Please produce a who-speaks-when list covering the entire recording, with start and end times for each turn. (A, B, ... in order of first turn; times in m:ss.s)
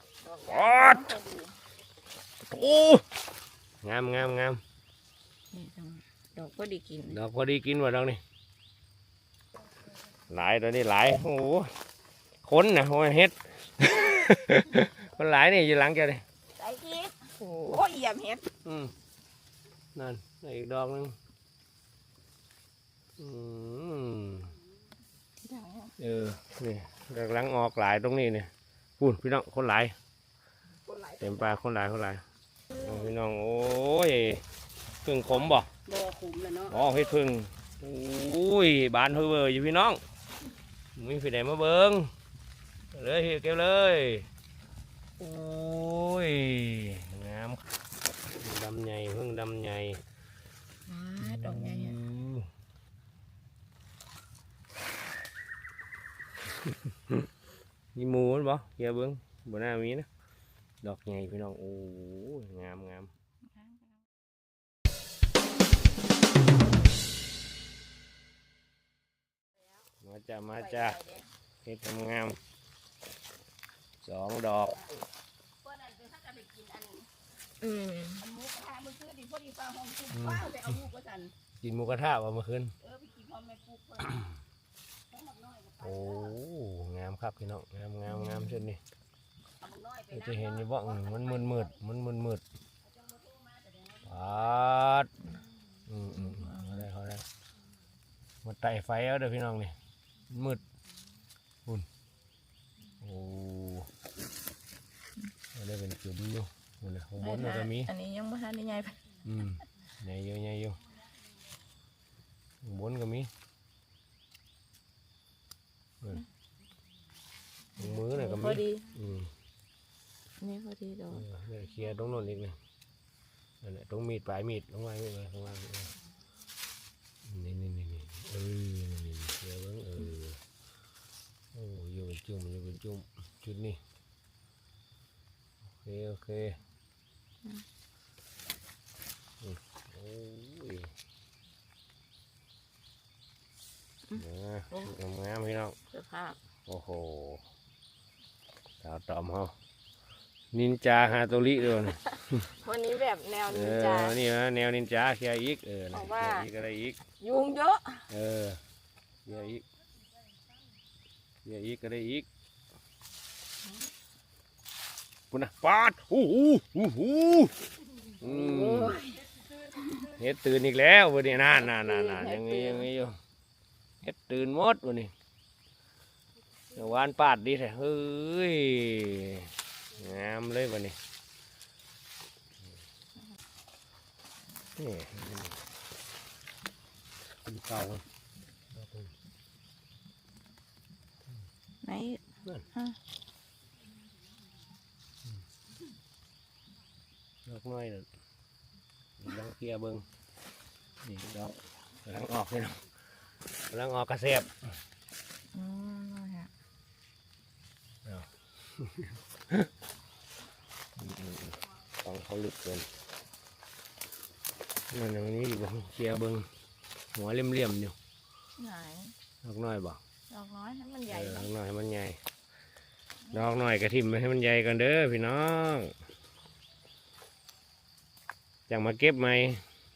0:00.2-0:01.5 A
0:00.4-0:01.1 B
0:02.4-0:03.0 B
0:03.8-0:04.6 B
0:05.5-0:07.2 A
0:07.1-0:08.2 B
0:10.3-0:11.7 B
0:12.4-0:16.2 B
0:16.6-0:18.5 A
0:17.4-0:17.8 B
0:18.6-0:18.9 B
0:19.9-0:21.1 B
0:23.2-0:24.5 B
0:25.4-0:25.9 A
0:26.0-0:29.9 B
0:30.9-0:31.2 A
0:31.2-0:32.2 B
0:32.7-0:34.4 B
0:35.0-0:35.7 B
0:35.8-0:36.8 C
0:36.7-0:40.0 B
0:41.0-0:42.1 B
0:42.9-0:44.3 B
0:45.2-0:47.6 B
0:48.4-0:50.0 B
0:50.9-0:52.0 A
0:51.2-0:52.5 B
0:56.7-0:57.2 B
0:57.9-1:00.1 B
1:00.8-1:03.1 B
1:10.0-1:11.0 B
1:11.6-1:12.4 B
1:14.0-1:14.8 B
1:15.6-1:17.1 C
1:17.6-1:18.3 A
1:18.2-1:21.3 C
1:20.1-1:20.8 B
1:21.6-1:22.7 B
1:22.8-1:24.2 C
1:25.1-1:26.1 C
1:25.8-1:28.8 B
1:28.1-1:28.7 A
1:29.6-1:31.7 C
1:30.1-1:32.4 B
1:33.4-1:33.9 C
1:34.0-1:35.1 B
1:35.9-1:37.2 B
1:36.2-1:36.6 A
1:38.4-1:39.7 B
1:40.3-1:40.6 B
1:43.0-1:43.9 B
1:45.5-1:47.9 B
1:47.2-1:49.0 A
1:49.2-1:50.8 B
1:52.6-1:53.3 B
1:57.8-1:59.3 B
1:58.0-1:58.9 A
2:00.4-2:01.2 A
2:01.1-2:02.6 B
2:03.6-2:05.9 B
2:07.2-2:10.4 B
2:11.5-2:13.8 B
2:15.8-2:16.6 B
2:19.4-2:20.9 B
2:24.1-2:24.9 A
2:24.1-2:25.8 B
2:25.9-2:26.4 A
2:26.7-2:27.4 B
2:28.8-2:29.5 B
2:30.5-2:32.5 B
2:32.5-2:34.2 A
2:33.5-2:37.0 B
2:35.9-2:36.5 A
2:37.2-2:38.0 A
2:38.1-2:38.6 B
2:39.2-2:39.6 B
2:41.4-2:42.3 B
2:45.3-2:47.5 B
2:48.2-2:49.0 B
2:48.2-2:49.2 A
2:50.0-2:53.2 B
2:51.5-2:52.0 A
2:51.9-2:52.7 C
2:54.0-2:55.1 B
2:56.7-3:01.0 B
3:04.8-3:05.6 B
3:07.4-3:08.0 B
3:08.7-3:09.1 B
3:11.8-3:12.2 A
3:17.4-3:18.1 B
3:19.2-3:20.0 B
3:21.0-3:22.8 B
3:23.7-3:24.5 B
3:25.5-3:26.5 A
3:28.0-3:29.7 B
3:31.0-3:32.8 B
3:34.9-3:36.5 B
3:37.1-3:37.9 B
3:38.6-3:39.1 A
3:39.4-3:40.0 B
3:40.3-3:41.5 A
3:41.1-3:42.2 B
3:43.3-3:45.9 B
3:48.7-3:49.6 B